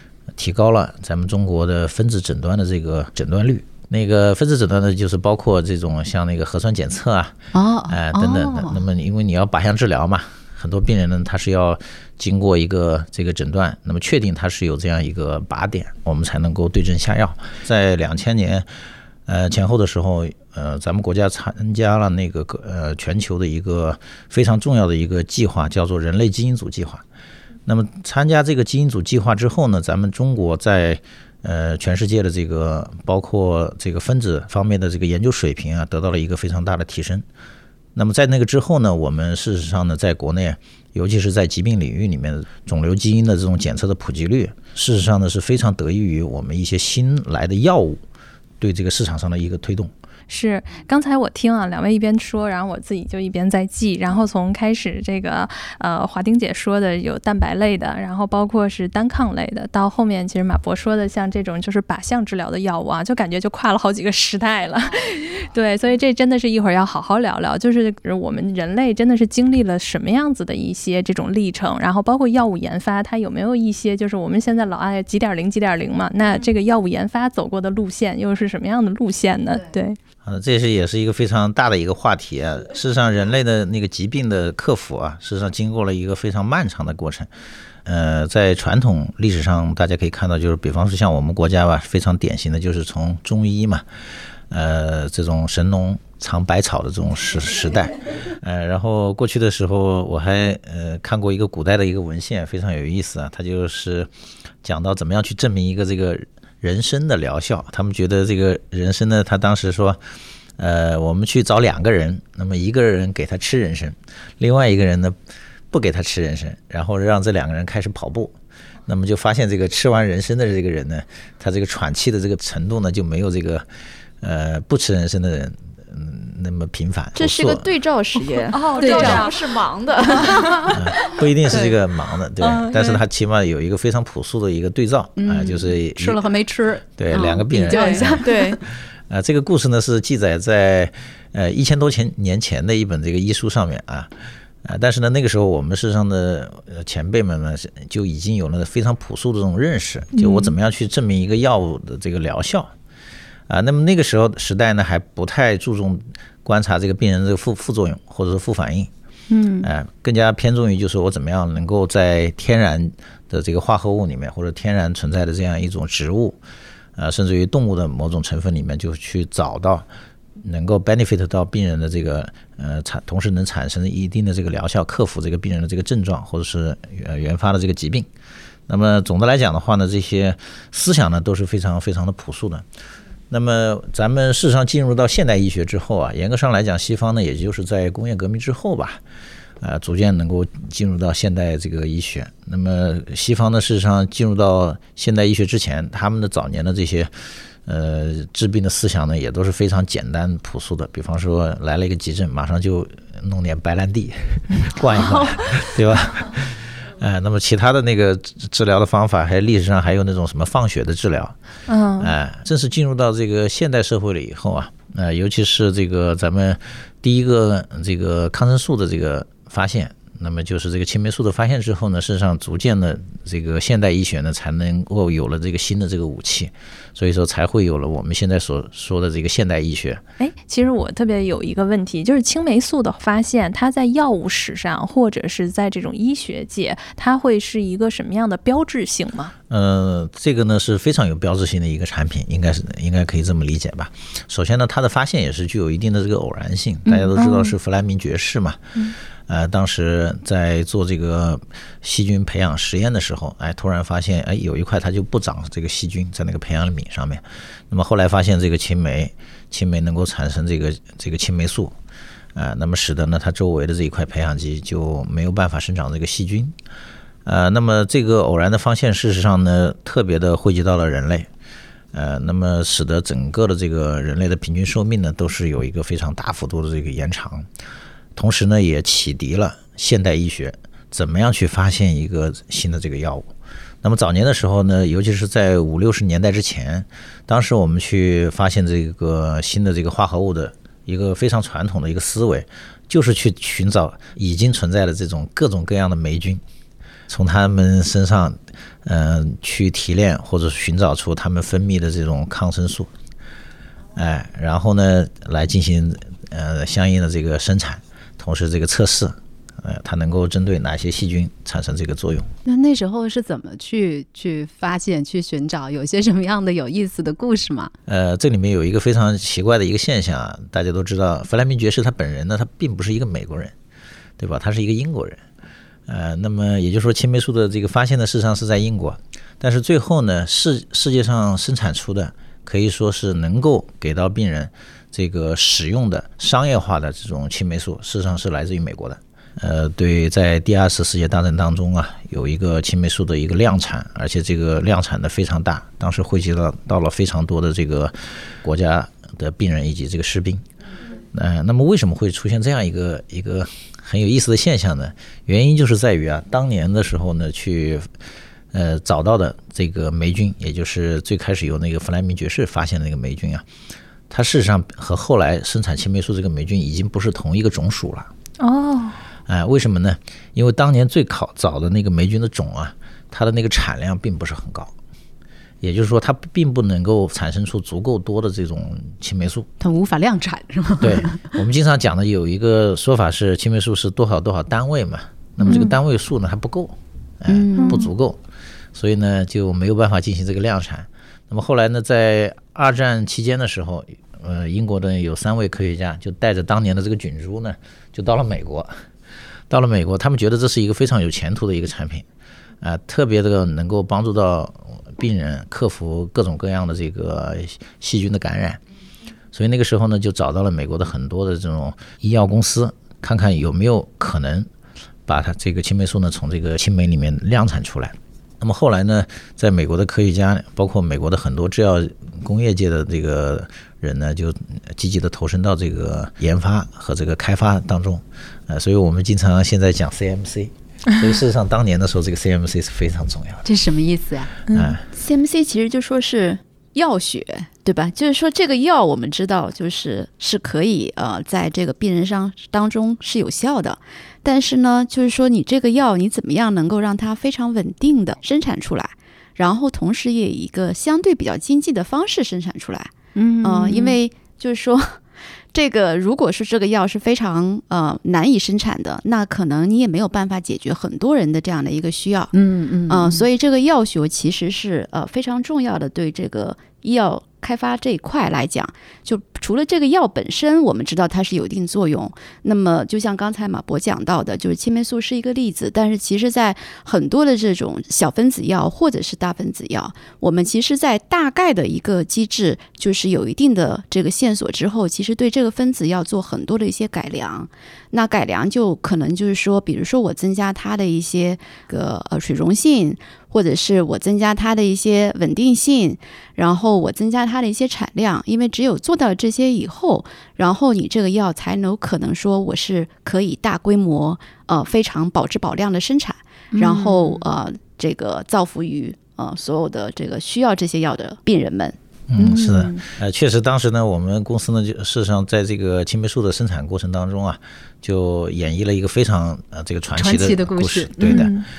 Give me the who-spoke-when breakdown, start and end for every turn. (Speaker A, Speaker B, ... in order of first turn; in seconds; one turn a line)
Speaker A: 0.4-7.4
Speaker B: 7.5-8.8
Speaker A: 7.9-18.7
Speaker A: 19.3-27.0
Speaker A: 27.7-37.2
Speaker A: 38.0-48.0
Speaker A: 48.6-49.9
Speaker C: 50.3-80.0
Speaker A: 80.2-87.3
Speaker A: 87.8-93.9
Speaker A: 94.5-104.1
Speaker A: 104.6-110.0
Speaker A: 110.6-115.2
Speaker A: 115.7-118.3
Speaker A: 118.9-123.7
Speaker A: 124.2-127.7
Speaker D: 127.2-130.8
Speaker C: 128.5-129.4
Speaker B: 128.7-129.4
Speaker C: 130.0-130.6
Speaker B: 130.1-130.7
Speaker A: 130.7-136.2
Speaker C: 132.4-133.0
Speaker B: 135.2-138.6
Speaker A: 137.0-144.1
Speaker C: 137.7-138.1
Speaker D: 138.0-138.6
Speaker A: 144.6-152.7
Speaker C: 150.2-150.6
Speaker A: 153.5-158.9
Speaker C: 159.3-159.7
Speaker A: 159.6-166.4
Speaker A: 167.0-169.9
Speaker A: 170.4-178.1
Speaker A: 178.7-182.7
Speaker A: 183.3-189.0
Speaker A: 189.6-197.1
Speaker A: 197.7-211.3
Speaker C: 211.7-212.1
Speaker A: 212.0-230.0
Speaker C: 230.2-239.3
Speaker A: 239.5-248.8
Speaker C: 246.9-247.6
Speaker A: 249.3-261.8
Speaker A: 262.4-266.6
Speaker A: 267.2-271.3
Speaker A: 271.9-277.5
Speaker A: 278.1-283.3
Speaker A: 283.8-296.4
Speaker A: 297.1-302.9
Speaker A: 303.9-312.3
Speaker B: 312.4-317.7
Speaker A: 317.9-323.5
Speaker A: 324.2-325.2
Speaker A: 325.9-350.4
Speaker A: 351.1-357.9
Speaker A: 358.5-363.4
Speaker A: 364.1-368.1
Speaker C: 368.4-369.0
Speaker A: 369.3-374.7
Speaker A: 375.6-379.5
Speaker B: 379.6-381.4
Speaker A: 380.8-388.2
Speaker B: 385.4-385.7
Speaker C: 385.5-385.7
Speaker B: 387.3-387.9
Speaker C: 387.6-387.9
Speaker A: 388.8-398.8
Speaker A: 399.5-402.1
Speaker A: 402.6-408.6
Speaker A: 409.3-414.5
Speaker A: 415.1-433.5
Speaker B: 433.4-434.3
Speaker C: 434.5-434.8
Speaker A: 434.5-434.8
Speaker D: 434.9-436.4
Speaker B: 436.8-437.5
Speaker D: 437.6-455.0
Speaker B: 453.1-454.0
Speaker D: 455.5-462.3
Speaker B: 462.3-463.3
Speaker D: 462.9-511.8
Speaker B: 506.6-507.1
Speaker A: 512.1-521.4
Speaker C: 512.2-512.8
Speaker B: 519.9-521.3
Speaker C: 521.0-521.5